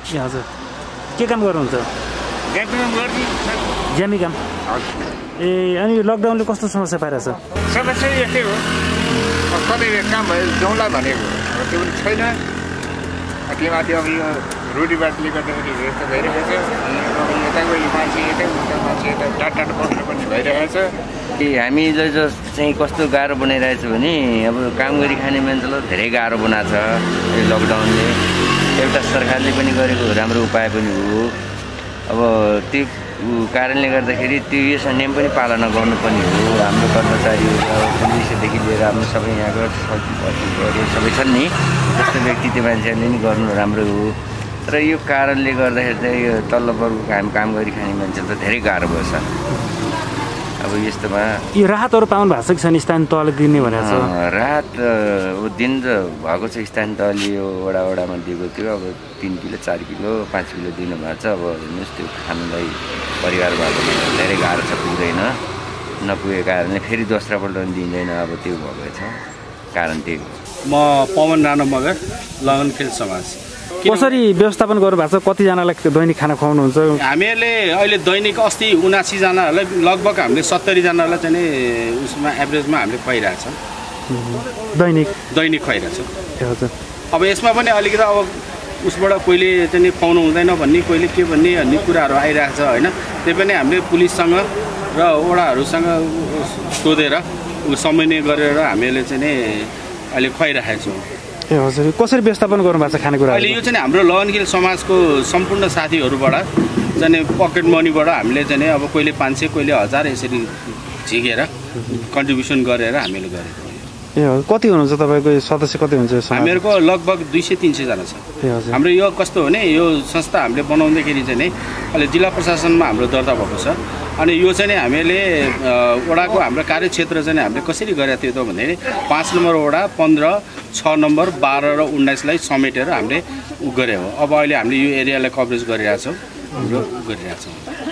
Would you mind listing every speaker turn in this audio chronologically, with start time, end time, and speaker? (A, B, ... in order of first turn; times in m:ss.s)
0:00.1-0:00.5 A
0:01.2-0:01.9 A
0:02.5-0:03.6 B
0:03.9-0:04.4 A
0:05.4-0:07.4 A
0:07.7-0:08.6 B
0:09.5-0:12.4 B
0:13.5-0:20.9 B
0:21.4-0:28.2 C
0:28.8-0:31.4 C
0:32.1-0:49.3 C
0:49.5-0:49.8 A
0:50.6-0:51.4 C
0:51.5-0:54.1 A
0:53.5-1:05.4 C
1:06.0-1:09.2 C
1:09.7-1:10.4 C
1:10.6-1:14.2 D
1:13.8-1:17.0 A
1:17.0-1:23.6 D
1:24.1-1:25.1 A
1:25.3-1:26.1 D
1:26.4-1:26.7 A
1:27.1-1:41.0 D
1:41.5-1:43.6 A
1:43.3-1:53.8 D
1:51.8-1:52.0 A
1:54.1-1:56.6 A
1:56.3-2:17.7 D
1:58.4-1:58.8 A
2:16.6-2:16.8 A